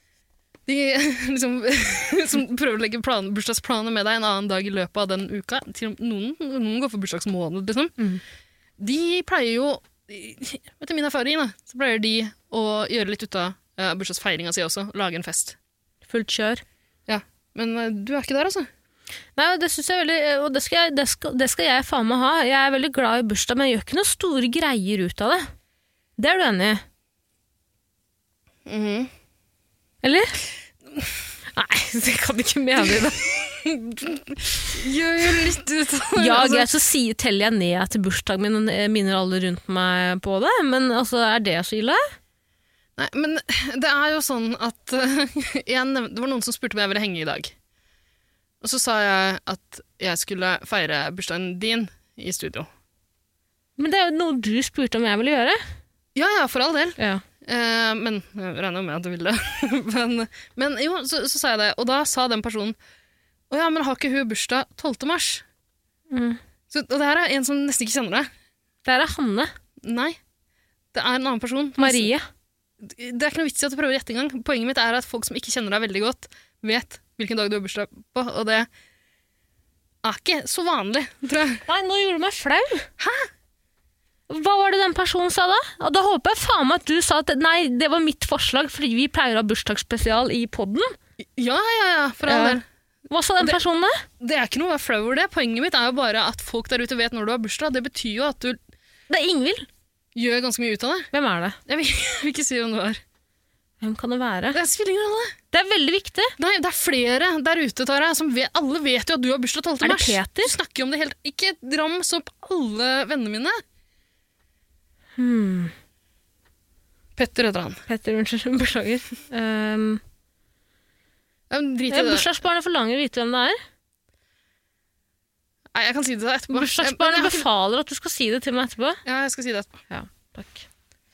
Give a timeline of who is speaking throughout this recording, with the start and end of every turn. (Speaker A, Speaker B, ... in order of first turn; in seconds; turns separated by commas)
Speaker A: 0.7-8.0, Speaker A: 8.8-15.6, Speaker B: 16.1-16.6, Speaker A: 17.1-18.7, Speaker B: 19.4-25.5, Speaker B: 26.2-26.8, Speaker A: 28.7-29.1, Speaker B: 30.0-30.4, Speaker B: 31.5-33.2, Speaker A: 33.4-36.7, Speaker B: 36.2-42.0, Speaker A: 43.0-47.5, Speaker A: 48.6-52.7, Speaker B: 53.8-55.6, Speaker A: 56.1-62.8, Speaker B: 57.0-57.2, Speaker A: 63.5-65.4, Speaker B: 66.1-66.4, Speaker A: 66.7-68.3, Speaker B: 68.9-69.5, Speaker A: 69.8-70.2, Speaker A: 70.9-72.1, Speaker B: 71.8-72.2, Speaker A: 72.8-78.7, Speaker A: 80.0-81.7, Speaker B: 81.7-82.9, Speaker A: 83.0-83.3, Speaker B: 84.3-91.0, Speaker A: 91.4-92.6, Speaker B: 92.3-94.0, Speaker A: 94.2-98.6, Speaker B: 99.1-99.7, Speaker A: 100.2-101.1, Speaker B: 101.1-101.6, Speaker A: 101.7-103.0, Speaker B: 103.8-104.6, Speaker A: 104.5-105.4, Speaker B: 105.5-106.3, Speaker A: 106.4-113.6, Speaker B: 109.8-110.5, Speaker B: 115.2-115.7, Speaker A: 117.2-117.8, Speaker B: 117.9-120.0, Speaker A: 121.5-122.3, Speaker B: 121.9-123.6, Speaker A: 125.7-127.5, Speaker B: 126.5-129.0, Speaker A: 129.1-129.7, Speaker B: 129.9-130.7